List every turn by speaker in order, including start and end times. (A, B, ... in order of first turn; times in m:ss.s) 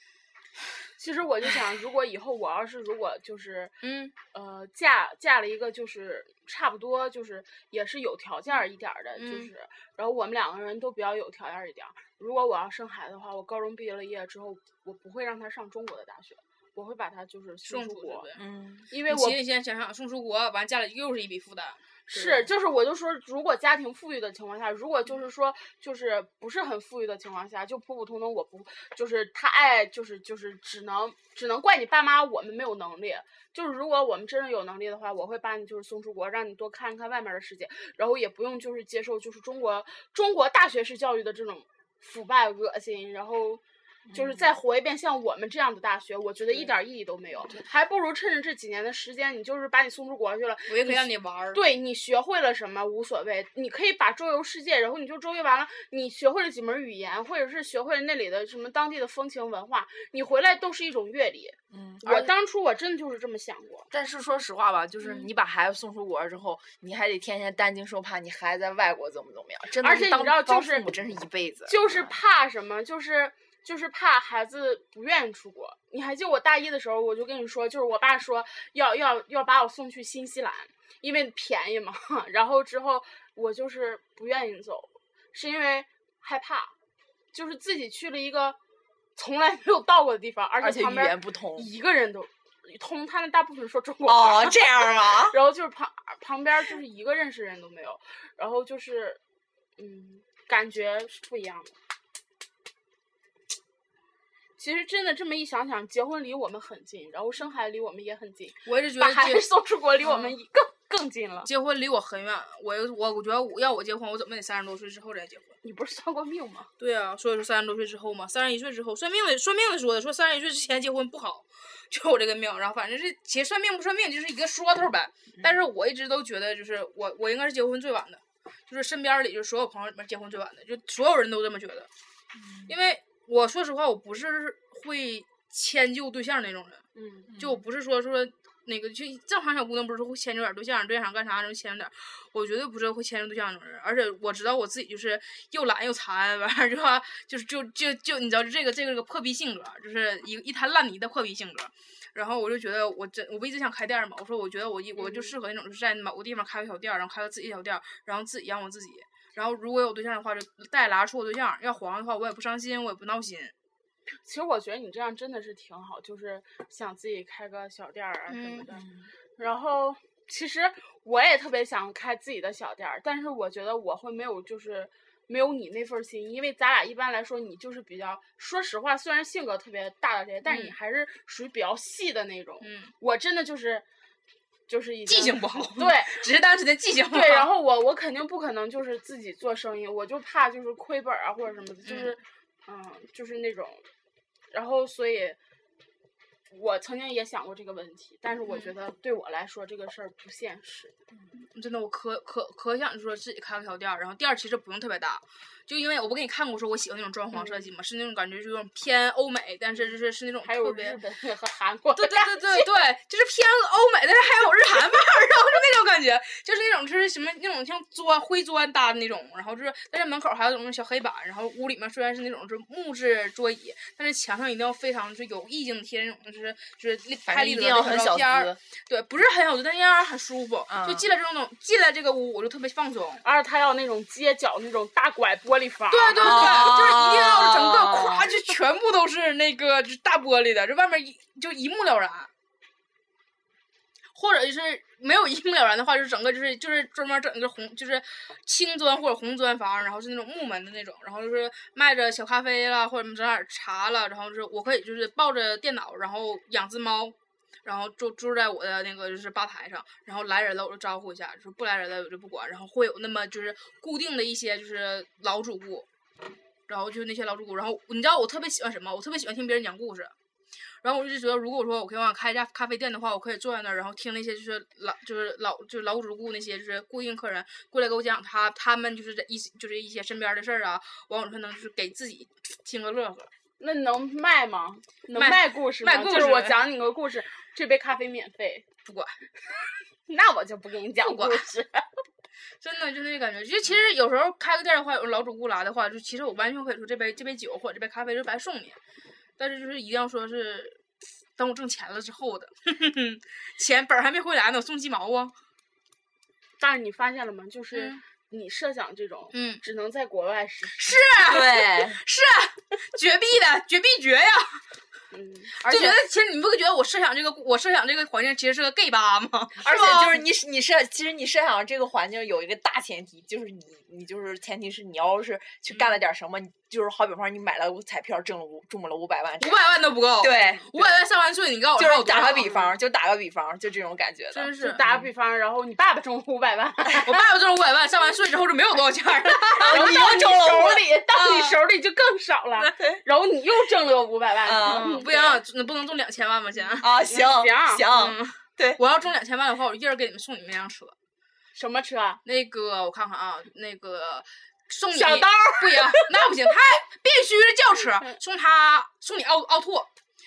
0:01.0-0:03.7 A
0:03.8-0:04.1 B
0:04.3-0:18.2 A
0:09.2-0:09.5 B
0:17.6-0:18.4 B
0:18.4-0:18.9 C
0:18.9-0:19.4 A
0:19.0-0:22.5 B
0:22.1-0:43.6 A
0:44.1-0:44.5 C
0:44.1-1:03.9 A
0:50.7-0:51.6 B
1:01.7-1:02.3 C
1:03.9-1:12.1 C
1:09.8-1:10.9 A
1:11.7-1:26.7 A
1:27.3-1:28.6 A
1:29.2-1:39.2 A
1:30.6-1:31.7 C
1:34.0-1:35.4 C
1:39.8-1:41.7 A
1:44.6-1:51.5 A
1:48.6-1:49.4 B
1:50.0-1:50.4 B
1:51.4-1:55.5 B
1:55.6-1:56.7 A
1:56.8-2:11.9 B
2:12.4-2:12.7 C
2:12.7-2:16.8 B
2:16.9-2:17.3 A
2:17.3-2:17.6 C
2:17.4-2:43.5 B
2:35.0-2:35.3 A
2:44.2-2:48.8 A
2:48.3-2:48.7 B
2:48.7-2:49.1 C
2:49.4-3:03.8 A
3:00.4-3:00.7 B
3:02.6-3:02.9 B
3:04.7-3:06.2 A
3:05.1-3:07.5 B
3:07.1-3:13.8 A
3:11.8-3:12.2 B
3:14.5-3:15.4 A
3:16.5-3:20.9 A
3:21.3-3:31.0 B
3:27.4-3:27.7 A
3:30.4-3:32.7 A
3:31.9-3:53.2 B
3:47.3-3:48.6 C
3:50.7-3:51.1 C
3:53.2-3:56.5 A
3:55.9-4:02.3 B
3:56.2-3:58.4 C
4:04.1-4:25.9 B
4:26.7-4:30.1 B
4:30.8-4:43.3 B
4:43.6-4:48.6 A
4:45.1-4:46.6 B
4:48.8-4:49.1 B
4:50.1-4:51.8 A
4:51.0-4:51.5 B
4:52.6-4:58.8 B
4:59.4-5:00.8 B
5:01.4-5:05.3 B
5:06.6-5:11.0 A
5:07.7-5:08.0 B
5:09.3-5:09.6 B
5:10.8-5:14.6 B
5:11.2-5:12.0 C
5:15.1-5:16.0 A
5:15.6-5:20.2 B
5:19.6-5:29.6 C
5:25.7-5:26.0 B
5:29.4-5:32.6 B
5:30.2-5:31.0 C
5:31.8-5:35.1 C
5:34.3-5:34.8 B
5:34.6-5:37.1 A
5:37.0-5:40.2 B
5:39.6-5:40.8 C
5:39.6-5:45.4 A
5:41.1-5:41.6 B
5:44.4-5:45.0 C
5:44.6-5:46.9 B
5:46.8-5:48.8 C
5:47.0-5:47.9 A
5:47.9-5:50.9 B
5:51.5-5:52.2 A
5:52.2-5:59.9 B
5:55.0-5:55.7 A